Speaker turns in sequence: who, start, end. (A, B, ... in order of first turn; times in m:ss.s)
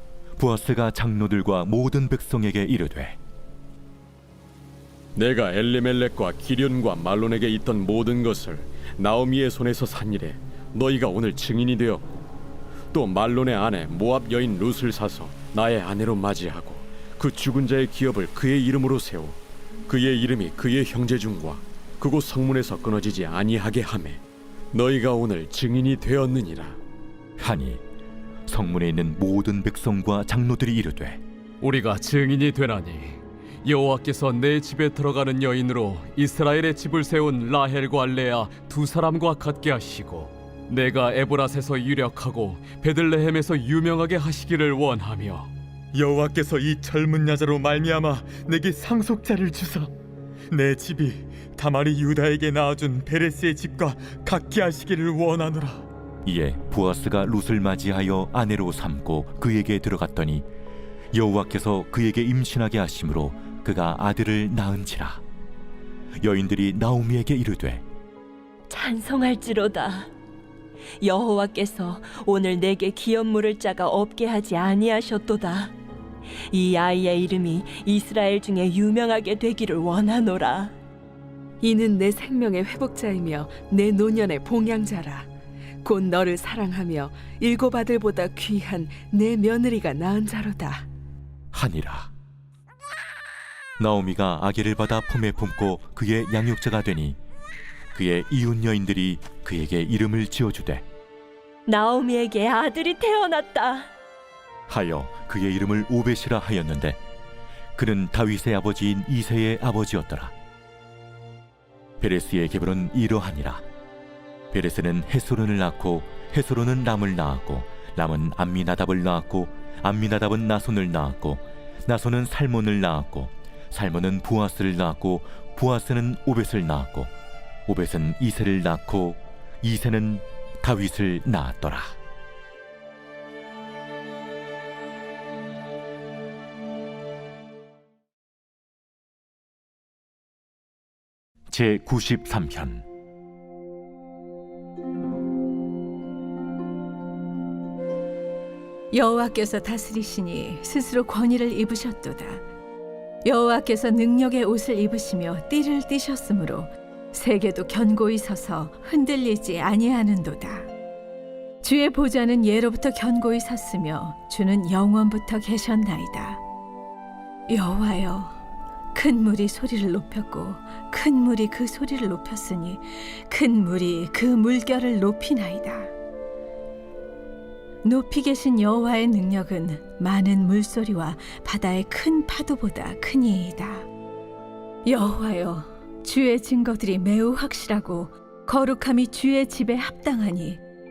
0:00.4-0:03.2 A
0:05.2-0:12.1 B
0:12.9-0:24.2 B
0:24.7-0:26.8 B
0:27.4-0:27.8 A
0:28.5-0:31.2 A
0:31.6-0:45.5 C
0:45.9-0:49.9 D
0:50.5-0:55.8 D
0:56.2-1:00.5 A
1:01.1-1:05.2 A
1:06.2-1:07.8 A
1:08.7-1:10.1 E
1:11.0-1:15.7 E
1:16.5-1:20.7 E
1:21.6-1:25.3 F
1:25.8-1:30.9 F
1:31.5-1:32.1 A
1:33.8-1:37.2 A
1:37.9-1:40.8 A
1:41.7-1:43.9 E
1:44.7-1:47.0 A
1:47.8-1:50.3 A
1:52.0-1:53.6 A
1:54.5-2:07.1 A
2:07.7-2:12.0 A
2:21.5-2:22.8 A
2:28.9-2:32.4 G
2:33.2-2:40.7 G
2:41.6-2:46.4 G
2:47.5-2:48.4 G
2:48.9-2:55.9 G
2:57.8-3:03.9 G
3:04.9-3:10.6 G